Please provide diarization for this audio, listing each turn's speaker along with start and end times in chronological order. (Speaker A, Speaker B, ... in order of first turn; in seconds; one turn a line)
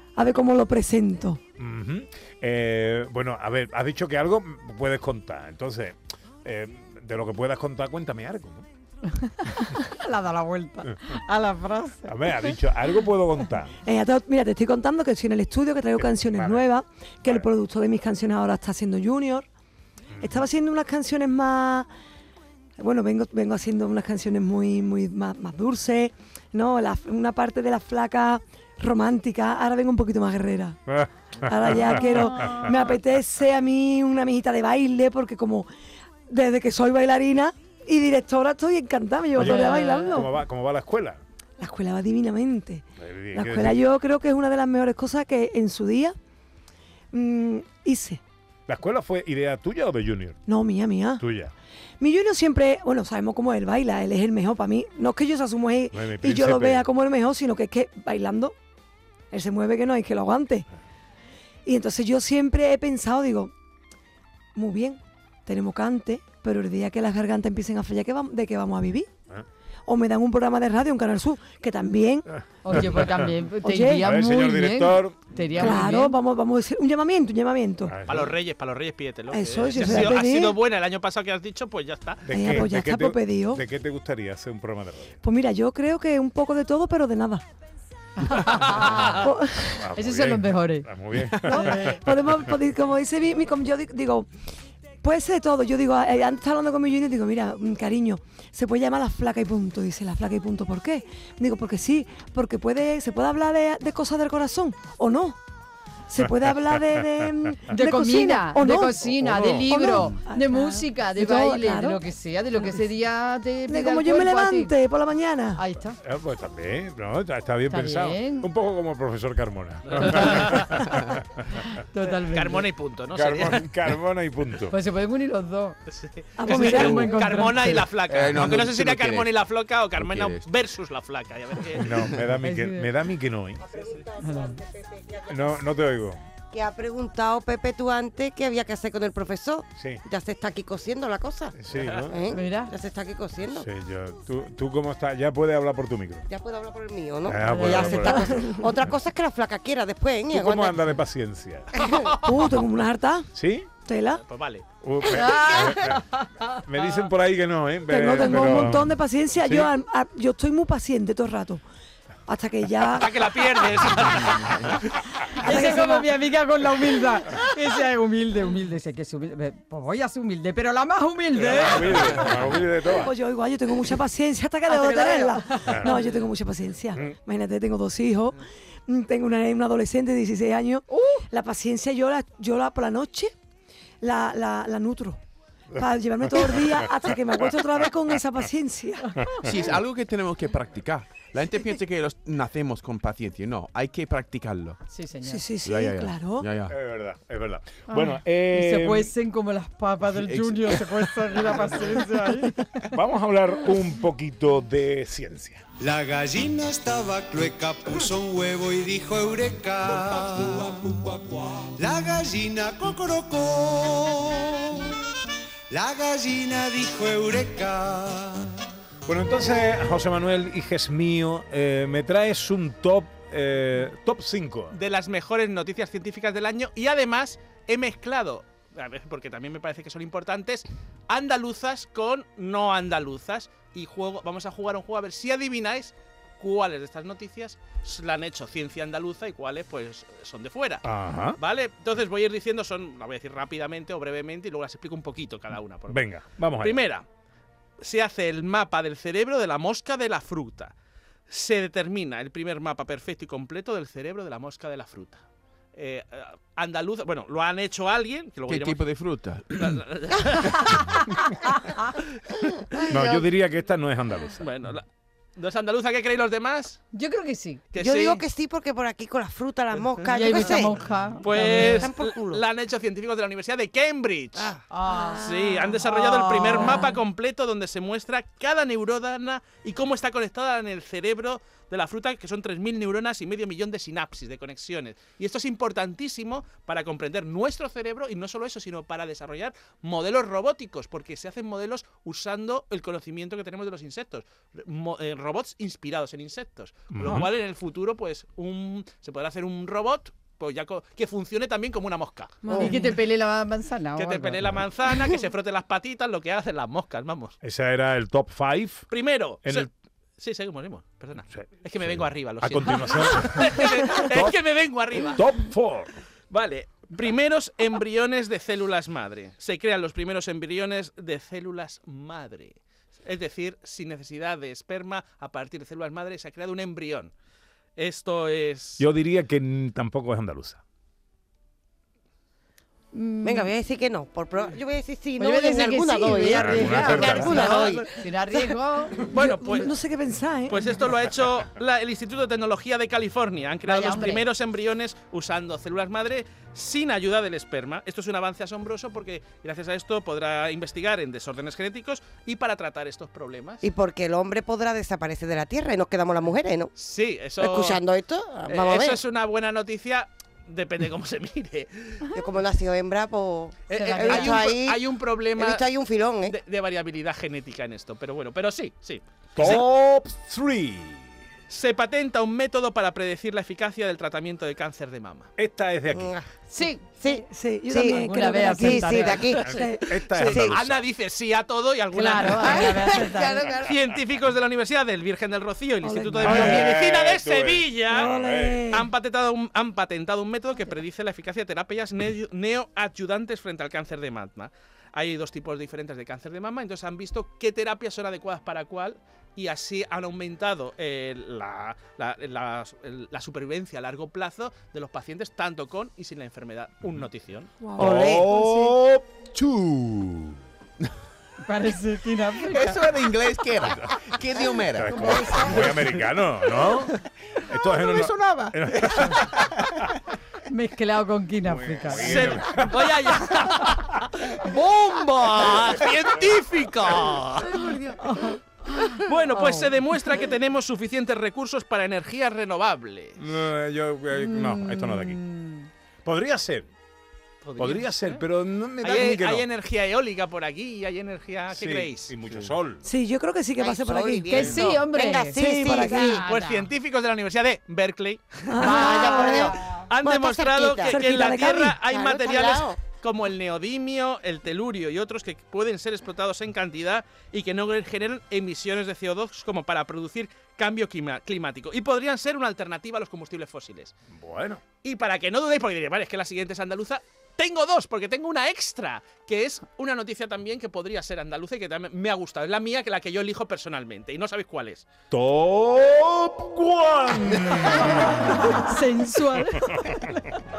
Speaker A: 0.2-1.4
Speaker B: 1.6-8.7
Speaker C: 9.2-12.6
Speaker B: 12.1-13.8
Speaker A: 13.8-19.5
Speaker B: 16.0-16.6
Speaker B: 20.1-20.4
Speaker A: 20.2-21.9
Speaker A: 22.8-30.8
Speaker B: 30.9-32.6
Speaker A: 31.4-35.7
Speaker C: 32.1-32.5
Speaker A: 36.3-40.3
Speaker B: 39.4-41.2
Speaker C: 39.4-40.1
Speaker A: 41.6-46.2
Speaker B: 43.0-43.8
Speaker A: 47.1-48.2
Speaker B: 48.7-50.4
Speaker A: 50.5-51.2
Speaker B: 51.2-51.5
Speaker A: 52.0-58.5
Speaker B: 55.9-56.9
Speaker A: 59.3-60.7
Speaker A: 61.7-63.5
Speaker A: 64.5-69.1
Speaker A: 69.9-72.8
Speaker C: 72.6-76.2
Speaker B: 72.7-73.3
Speaker A: 73.6-74.1
Speaker B: 74.0-75.8
Speaker A: 75.5-78.0
Speaker B: 77.9-78.4
Speaker D: 78.1-82.6
Speaker A: 79.3-80.6
Speaker B: 79.8-80.2
Speaker B: 82.3-85.2
Speaker A: 82.3-83.6
Speaker A: 85.2-87.4
Speaker C: 88.2-89.3
Speaker A: 88.7-89.8
Speaker B: 88.8-92.5
Speaker C: 89.9-90.9
Speaker C: 91.4-91.9
Speaker A: 91.5-94.3
Speaker A: 95.0-105.4
Speaker A: 106.1-112.0
Speaker B: 106.2-107.2
Speaker C: 107.7-114.7
Speaker B: 109.2-110.1
Speaker A: 113.7-115.6
Speaker C: 115.6-116.0
Speaker B: 116.0-121.6
Speaker C: 117.7-118.5
Speaker D: 119.9-120.8
Speaker C: 121.8-122.7
Speaker D: 122.2-123.7
Speaker B: 123.1-124.8
Speaker C: 124.7-125.8
Speaker D: 125.9-132.1
Speaker A: 126.4-127.0
Speaker C: 126.5-127.9
Speaker E: 126.7-127.1
Speaker E: 128.1-129.3
Speaker E: 130.0-130.4
Speaker B: 131.8-133.6
Speaker E: 131.8-132.2
Speaker C: 132.4-132.9
Speaker F: 133.6-135.4
Speaker C: 134.2-134.6
Speaker B: 135.3-136.2
Speaker F: 136.5-141.6
Speaker B: 139.8-140.0
Speaker B: 141.6-142.2
Speaker F: 142.1-143.7
Speaker C: 142.3-142.7
Speaker B: 143.4-146.3
Speaker F: 146.3-150.8
Speaker B: 147.3-148.4
Speaker C: 147.3-148.3
Speaker A: 148.3-148.7
Speaker B: 150.3-151.7
Speaker F: 151.8-152.1
Speaker A: 152.2-153.3
Speaker B: 153.3-153.7
Speaker A: 153.9-154.2
Speaker D: 154.2-154.7
Speaker B: 154.8-159.7
Speaker C: 155.0-156.2
Speaker F: 155.1-155.8
Speaker A: 157.9-161.6
Speaker A: 162.3-163.1
Speaker D: 162.8-164.8
Speaker A: 165.4-166.1
Speaker C: 165.4-172.3
Speaker B: 171.3-173.1
Speaker A: 172.8-183.3
Speaker C: 174.7-176.1
Speaker B: 175.7-176.0
Speaker C: 180.9-181.3
Speaker A: 184.0-185.2
Speaker A: 185.7-189.2
Speaker B: 186.3-187.5
Speaker B: 189.2-189.5
Speaker E: 189.4-194.8
Speaker C: 194.9-195.4
Speaker A: 195.2-196.5
Speaker E: 195.7-196.7
Speaker B: 196.7-199.1
Speaker C: 197.9-202.8
Speaker E: 200.1-201.0
Speaker B: 202.9-205.7
Speaker G: 205.8-215.0
Speaker G: 215.7-218.5
Speaker B: 219.1-224.8
Speaker D: 224.7-240.8
Speaker B: 240.8-241.4
Speaker D: 241.4-247.1
Speaker B: 245.9-246.8
Speaker D: 247.8-250.7
Speaker D: 251.3-255.2
Speaker D: 255.7-258.9
Speaker E: 258.5-259.8
Speaker D: 259.6-261.1
Speaker B: 262.9-264.5
Speaker F: 262.9-263.2
Speaker D: 264.4-266.8
Speaker C: 266.9-267.6
Speaker D: 267.7-268.2
Speaker F: 267.8-270.8
Speaker D: 270.1-270.7
Speaker C: 270.1-271.9
Speaker D: 271.2-274.6
Speaker F: 271.4-272.4
Speaker F: 274.4-275.5
Speaker C: 274.7-277.0
Speaker D: 275.2-302.7
Speaker B: 296.9-297.3
Speaker F: 302.5-302.8
Speaker A: 302.5-302.8
Speaker C: 302.5-304.4
Speaker D: 304.0-307.4
Speaker B: 307.4-308.9
Speaker D: 308.9-315.2
Speaker B: 309.4-309.7
Speaker B: 311.8-314.4
Speaker B: 314.9-315.9
Speaker D: 316.3-327.1
Speaker D: 327.8-328.9
Speaker B: 328.8-330.6
Speaker C: 332.9-333.5
Speaker F: 333.2-338.5
Speaker C: 335.2-339.6
Speaker B: 336.3-337.5
Speaker D: 337.2-337.9
Speaker D: 339.1-339.7
Speaker A: 339.1-340.6
Speaker D: 340.5-353.6
Speaker C: 343.7-344.2
Speaker F: 353.6-356.7
Speaker D: 356.8-357.8
Speaker F: 357.4-359.0
Speaker D: 358.5-362.0
Speaker F: 362.1-364.8
Speaker D: 363.7-365.6
Speaker C: 363.8-364.4
Speaker F: 365.4-366.4
Speaker D: 366.2-369.7
Speaker B: 369.4-371.2
Speaker D: 371.5-375.3
Speaker B: 375.4-376.1
Speaker F: 375.9-376.3
Speaker C: 376.5-376.8
Speaker F: 377.0-379.5
Speaker A: 377.3-379.9
Speaker C: 377.8-379.5
Speaker B: 379.4-380.9
Speaker D: 380.1-382.9
Speaker C: 381.9-383.4
Speaker F: 382.4-383.7
Speaker D: 383.6-388.1
Speaker A: 385.8-386.8
Speaker B: 386.2-388.7
Speaker A: 387.9-388.9
Speaker D: 388.7-407.6
Speaker A: 407.6-408.7
Speaker B: 407.8-410.4
Speaker F: 407.8-408.3
Speaker C: 411.4-412.8
Speaker E: 412.4-414.9
Speaker B: 413.7-414.0
Speaker B: 414.7-419.8
Speaker C: 414.9-415.6
Speaker E: 417.9-419.4
Speaker C: 420.5-422.2
Speaker B: 421.4-423.0
Speaker D: 421.9-427.6
Speaker C: 428.0-429.7
Speaker D: 429.0-433.2
Speaker B: 433.2-435.2
Speaker C: 434.2-435.7
Speaker B: 436.1-436.7
Speaker D: 437.4-438.3
Speaker B: 437.6-439.5
Speaker D: 438.8-442.1
Speaker B: 441.5-442.9
Speaker A: 442.8-444.7
Speaker F: 443.6-446.3
Speaker C: 444.3-446.7
Speaker A: 445.3-446.2
Speaker D: 446.1-463.9
Speaker A: 448.5-449.5
Speaker C: 448.6-449.7
Speaker F: 448.6-451.2
Speaker A: 450.9-451.8
Speaker F: 451.8-452.8
Speaker B: 464.1-464.6
Speaker D: 464.8-474.9
Speaker B: 475.1-478.6
Speaker C: 477.8-480.2